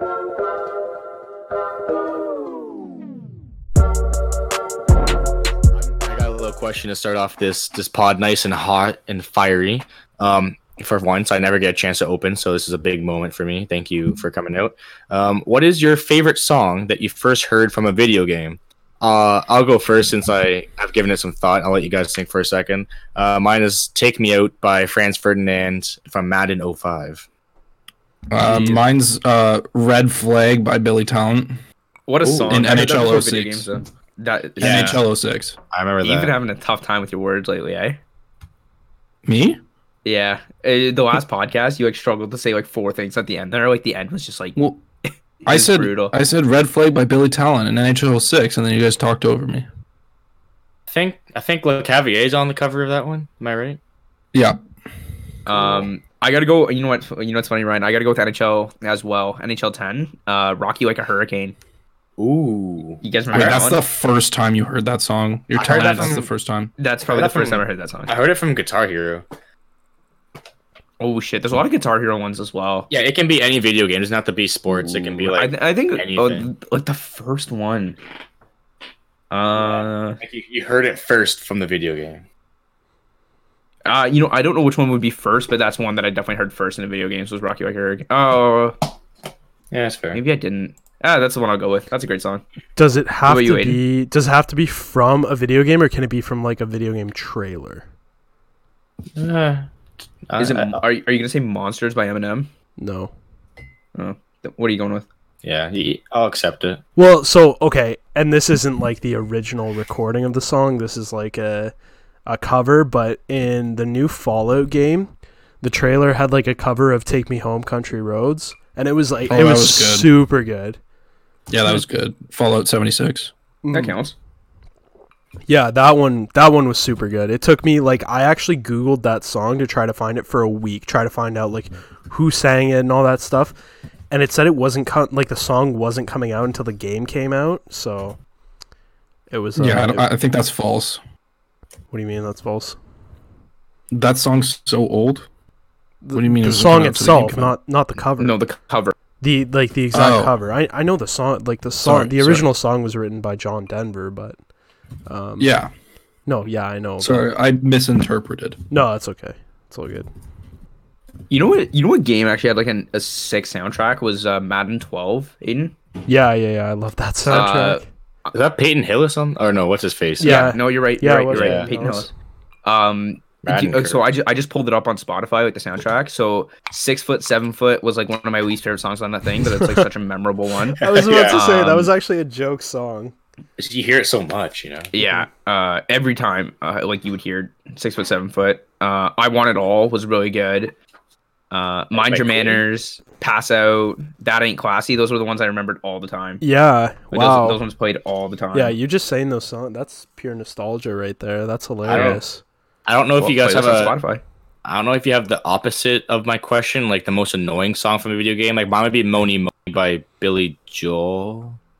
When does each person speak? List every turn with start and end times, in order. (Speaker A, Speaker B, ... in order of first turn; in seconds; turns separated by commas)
Speaker A: 5.8-27.3, Speaker B: 28.3-31.6, Speaker C: 28.4-28.8, Speaker C: 32.1-35.0, Speaker A: 32.2-33.0, Speaker B: 32.5-33.7, Speaker A: 34.6-35.0, Speaker B: 34.6-35.5, Speaker A: 35.7-36.3, Speaker C: 36.0-38.0, Speaker B: 39.2-39.6, Speaker C: 40.0-44.6, Speaker B: 44.5-44.8, Speaker C: 45.5-46.1, Speaker B: 45.5-49.7, Speaker A: 50.9-53.8, Speaker B: 54.3-54.6, Speaker C: 55.5-61.6, Speaker A: 62.2-63.6, Speaker C: 63.0-63.8, Speaker B: 63.3-66.7, Speaker A: 65.5-66.3, Speaker C: 66.8-68.1, Speaker A: 67.1-69.2, Speaker C: 71.0-72.9, Speaker A: 72.9-76.5, Speaker C: 74.7-78.0, Speaker C: 79.3-80.2, Speaker A: 79.5-82.2, Speaker C: 83.8-88.8, Speaker A: 89.7-90.2, Speaker C: 90.1-92.4, Speaker D: 92.8-97.8, Speaker C: 93.2-93.8, Speaker A: 99.2-99.7, Speaker A: 100.3-100.8, Speaker C: 100.4-102.5, Speaker D: 102.8-103.1, Speaker C: 104.0-105.1, Speaker A: 105.4-106.8, Speaker D: 107.0-111.7, Speaker D: 112.2-115.1, Speaker D: 115.6-120.8, Speaker B: 119.3-120.1, Speaker B: 121.5-123.3, Speaker D: 123.6-124.0, Speaker C: 123.7-124.1, Speaker D: 125.5-133.6, Speaker D: 134.1-138.2, Speaker D: 139.3-140.1, Speaker B: 139.6-141.0, Speaker D: 141.9-142.8, Speaker B: 143.9-145.3, Speaker D: 146.0-148.4, Speaker B: 146.1-147.6, Speaker C: 148.2-149.0, Speaker D: 149.2-154.4, Speaker B: 149.9-150.3, Speaker B: 151.8-152.5, Speaker D: 155.1-155.5, Speaker B: 155.4-155.7, Speaker D: 156.2-157.2, Speaker B: 157.0-158.6, Speaker D: 158.7-160.1, Speaker C: 161.3-165.7, Speaker D: 166.1-167.8, Speaker C: 167.3-167.8, Speaker A: 168.3-170.5, Speaker D: 170.2-172.1, Speaker C: 170.2-172.1, Speaker A: 171.3-171.7, Speaker C: 172.6-181.9, Speaker A: 173.4-174.0, Speaker D: 179.4-179.8, Speaker D: 180.8-183.1, Speaker A: 180.8-181.4, Speaker A: 183.6-184.9, Speaker C: 184.9-190.8, Speaker C: 191.5-196.4, Speaker A: 191.9-192.6, Speaker D: 196.4-197.6, Speaker C: 197.1-198.8, Speaker D: 198.5-202.4, Speaker A: 201.9-202.2, Speaker C: 201.9-202.2, Speaker A: 202.9-203.9, Speaker C: 203.2-204.2, Speaker A: 204.6-211.6